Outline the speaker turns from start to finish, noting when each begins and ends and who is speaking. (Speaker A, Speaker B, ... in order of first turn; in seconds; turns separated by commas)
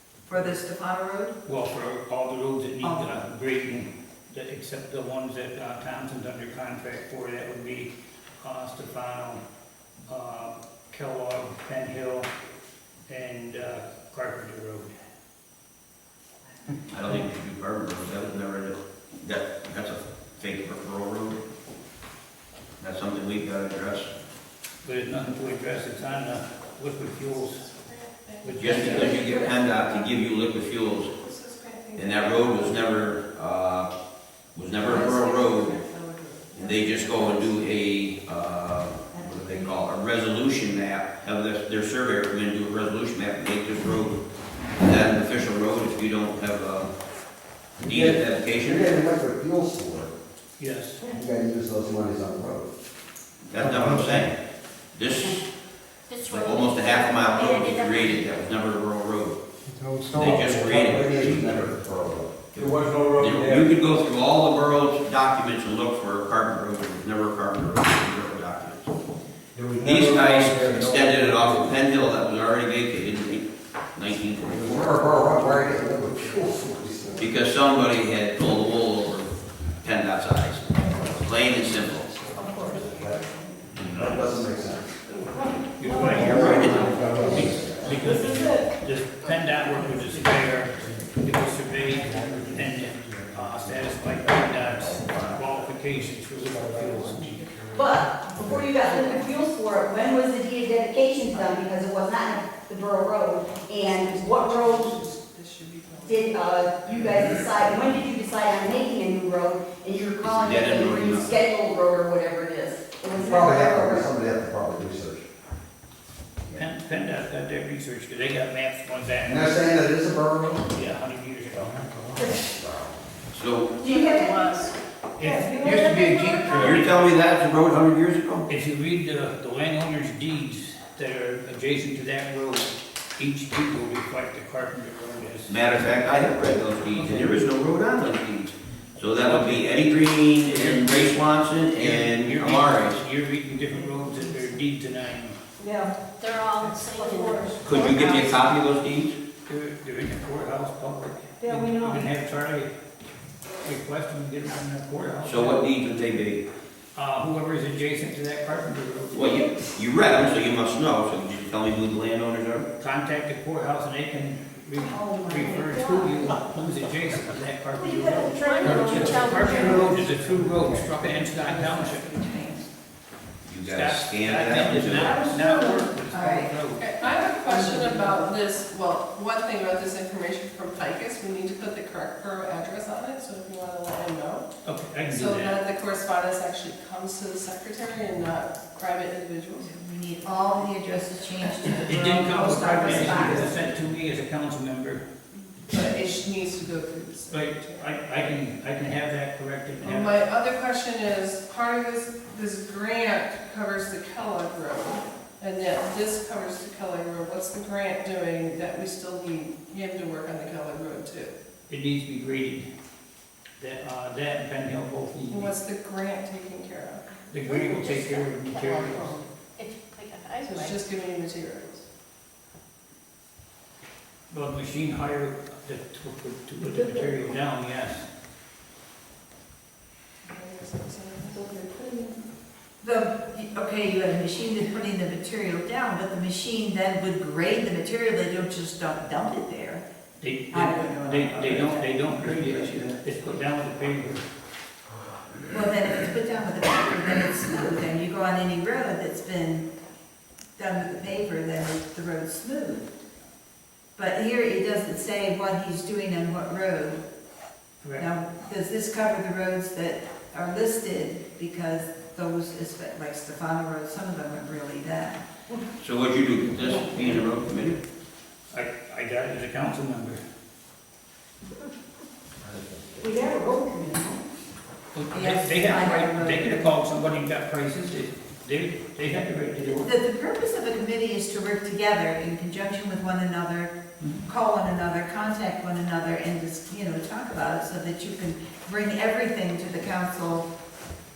Speaker A: 0.3-1.4, Speaker B: 1.5-7.9, Speaker B: 8.4-9.4, Speaker B: 10.1-12.3, Speaker B: 13.1-14.9, Speaker C: 16.9-21.4, Speaker C: 22.8-24.1, Speaker B: 24.8-27.6, Speaker D: 27.3-30.1, Speaker B: 28.4-29.2, Speaker C: 28.6-31.1, Speaker D: 31.0-33.0, Speaker C: 32.0-33.9, Speaker C: 34.5-35.8, Speaker D: 34.8-37.8, Speaker C: 36.5-44.2, Speaker A: 39.1-39.5, Speaker C: 44.8-46.9, Speaker C: 47.8-48.9, Speaker E: 47.8-50.1, Speaker B: 50.6-51.0, Speaker E: 51.0-52.7, Speaker C: 53.5-54.3, Speaker E: 53.6-54.3, Speaker C: 54.9-55.5, Speaker F: 56.1-58.4, Speaker C: 56.3-59.4, Speaker G: 59.7-60.2, Speaker E: 60.1-62.4, Speaker C: 60.1-61.6, Speaker B: 60.2-61.4, Speaker C: 62.5-68.9, Speaker G: 62.6-63.7, Speaker G: 69.6-71.7, Speaker C: 69.8-75.0, Speaker E: 74.5-77.3, Speaker G: 75.0-77.3, Speaker C: 77.2-82.2, Speaker G: 80.9-82.6, Speaker D: 82.6-82.8, Speaker E: 82.7-83.2, Speaker C: 83.7-84.2, Speaker E: 83.8-85.0, Speaker B: 85.8-97.5, Speaker G: 85.9-88.6, Speaker C: 86.0-87.0, Speaker E: 86.1-88.0, Speaker H: 88.0-88.3, Speaker G: 90.0-91.2, Speaker G: 91.8-98.6, Speaker H: 97.7-105.0, Speaker D: 103.9-107.1, Speaker H: 106.0-114.1, Speaker C: 107.0-107.5, Speaker C: 110.2-111.4, Speaker E: 113.1-115.2, Speaker B: 116.5-119.8, Speaker E: 119.2-120.7, Speaker B: 120.7-121.9, Speaker G: 121.6-122.1, Speaker H: 122.2-122.5, Speaker E: 122.4-123.0, Speaker C: 123.3-124.0, Speaker H: 123.8-124.6, Speaker D: 124.0-124.7, Speaker F: 124.1-124.6, Speaker B: 125.2-126.9, Speaker H: 125.5-126.5, Speaker G: 125.8-126.4, Speaker C: 126.4-128.4, Speaker B: 128.5-135.6, Speaker C: 135.5-143.0, Speaker B: 136.8-137.4, Speaker B: 139.2-141.1, Speaker B: 141.8-145.4, Speaker F: 146.2-148.4, Speaker H: 147.0-147.6, Speaker G: 147.0-147.4, Speaker C: 147.6-149.2, Speaker B: 149.5-152.7, Speaker H: 151.4-152.0, Speaker B: 153.6-155.6, Speaker C: 155.2-156.4, Speaker B: 156.9-159.2, Speaker C: 159.1-162.7, Speaker B: 162.8-172.1, Speaker A: 164.9-166.1, Speaker A: 167.8-172.7, Speaker F: 168.3-170.1, Speaker C: 173.4-175.5, Speaker B: 173.7-176.8, Speaker A: 174.9-176.5, Speaker D: 176.8-184.5, Speaker A: 177.5-178.2, Speaker B: 184.6-185.6, Speaker D: 185.1-189.7, Speaker A: 189.6-193.6, Speaker B: 191.9-195.0, Speaker D: 195.7-197.8, Speaker B: 197.3-200.2, Speaker D: 199.8-211.3, Speaker B: 211.7-212.7, Speaker B: 213.6-215.5, Speaker D: 215.3-217.1, Speaker B: 217.3-219.2, Speaker F: 217.3-220.8, Speaker D: 220.4-221.8, Speaker B: 224.3-228.1, Speaker G: 226.8-227.1, Speaker D: 230.2-231.4, Speaker G: 231.5-232.1, Speaker A: 232.8-239.8, Speaker B: 240.2-244.2, Speaker A: 240.5-241.9, Speaker C: 242.2-242.9, Speaker A: 245.5-249.7, Speaker A: 250.6-252.9, Speaker A: 254.0-257.0, Speaker A: 258.0-265.2, Speaker C: 265.8-267.8, Speaker B: 268.5-270.2, Speaker H: 273.0-274.2, Speaker B: 274.9-279.9, Speaker A: 275.1-276.7, Speaker A: 279.8-290.5